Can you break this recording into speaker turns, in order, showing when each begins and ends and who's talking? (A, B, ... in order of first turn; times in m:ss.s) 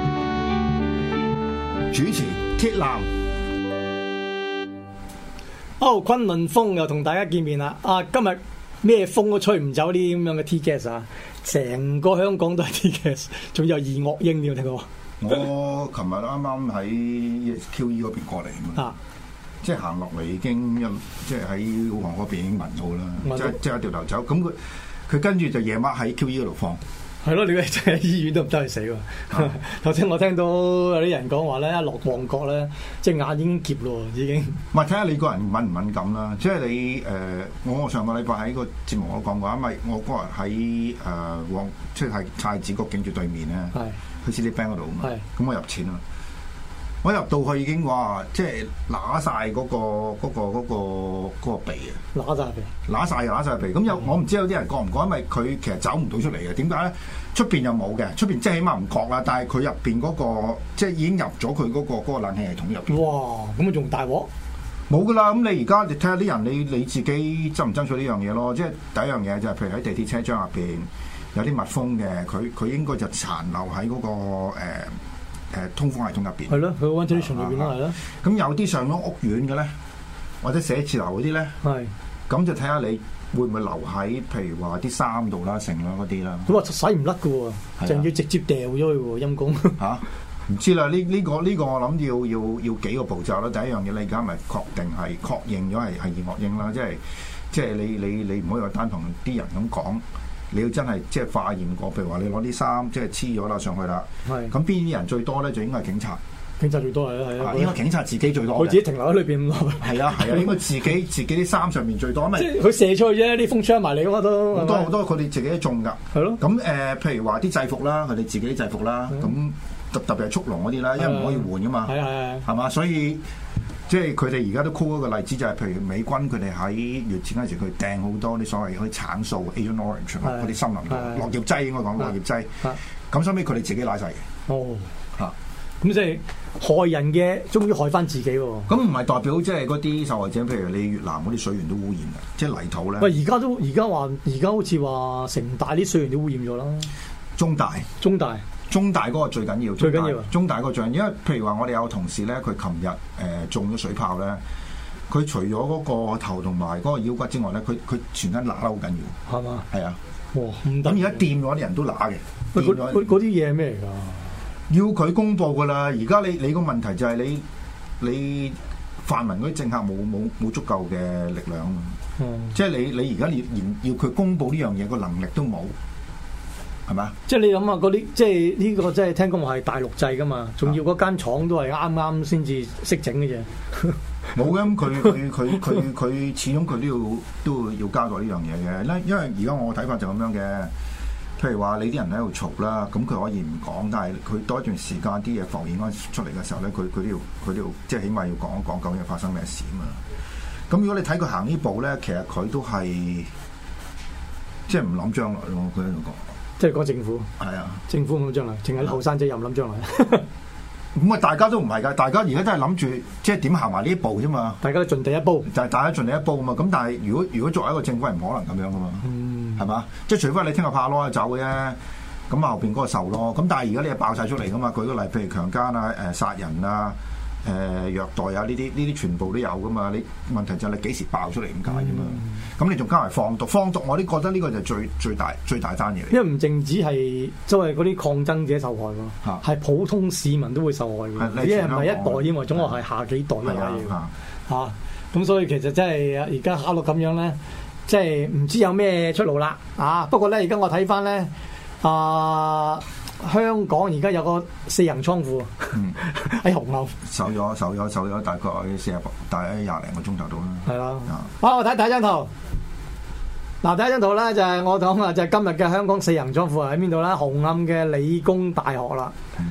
0:01.9-0:03.1 A
0:05.8-0:14.9 B
0:15.2-0:18.9 A
0:19.6-0:26.8 A
0:23.2-0:23.6 B
0:27.2-0:34.6 B
0:34.7-0:46.0 A
0:47.0-0:52.0 A
0:52.1-0:52.7 B
0:52.8-1:03.0 A
1:02.9-1:04.3 B
1:04.9-1:15.0 A
1:15.5-1:19.7 A
1:16.5-1:18.0 B
1:20.4-1:21.6 A
1:21.6-1:21.9 B
1:22.3-1:26.5 A
1:26.4-1:29.8 B
1:27.8-1:28.1 A
1:29.8-1:46.2 A
1:44.2-1:44.5 B
1:46.6-1:47.8 B
1:47.4-1:48.8 A
1:48.5-1:50.6 B
1:49.8-1:52.5 A
1:52.3-1:54.9 B
1:54.5-2:03.2 A
1:56.1-1:56.4 B
2:01.0-2:02.5 B
2:03.9-2:14.3 A
2:10.2-2:11.3 B
2:14.5-2:14.9 B
2:15.8-2:18.7 B
2:18.7-2:23.1 A
2:23.0-2:26.9 B
2:27.4-2:27.9 A
2:28.0-2:28.4 B
2:28.7-2:34.4 A
2:29.8-2:30.3 B
2:35.1-2:39.2 A
2:39.3-2:39.7 B
2:39.7-2:40.0 A
2:40.3-2:41.2 B
2:40.8-2:43.1 A
2:42.5-2:44.3 B
2:44.7-2:47.4 A
2:48.0-2:52.0 A
2:52.2-2:52.5 B
2:52.5-2:55.7 A
2:56.9-2:57.2 A
2:57.3-3:04.0 B
3:04.3-3:10.7 A
3:11.4-3:20.0 A
3:20.7-3:23.3 A
3:24.7-3:26.2 A
3:26.6-3:27.3 B
3:27.4-3:27.8 A
3:27.9-3:30.2 B
3:30.9-3:34.6 A
3:34.6-3:35.5 B
3:35.4-3:41.8 A
3:39.0-3:39.6 B
3:42.3-3:56.2 A
3:51.7-3:52.3 B
3:56.1-4:03.9 B
4:01.2-4:02.7 A
4:03.4-4:04.1 A
4:04.5-4:17.0 B
4:17.0-4:21.2 A
4:20.6-4:22.3 B
4:23.6-4:29.1 B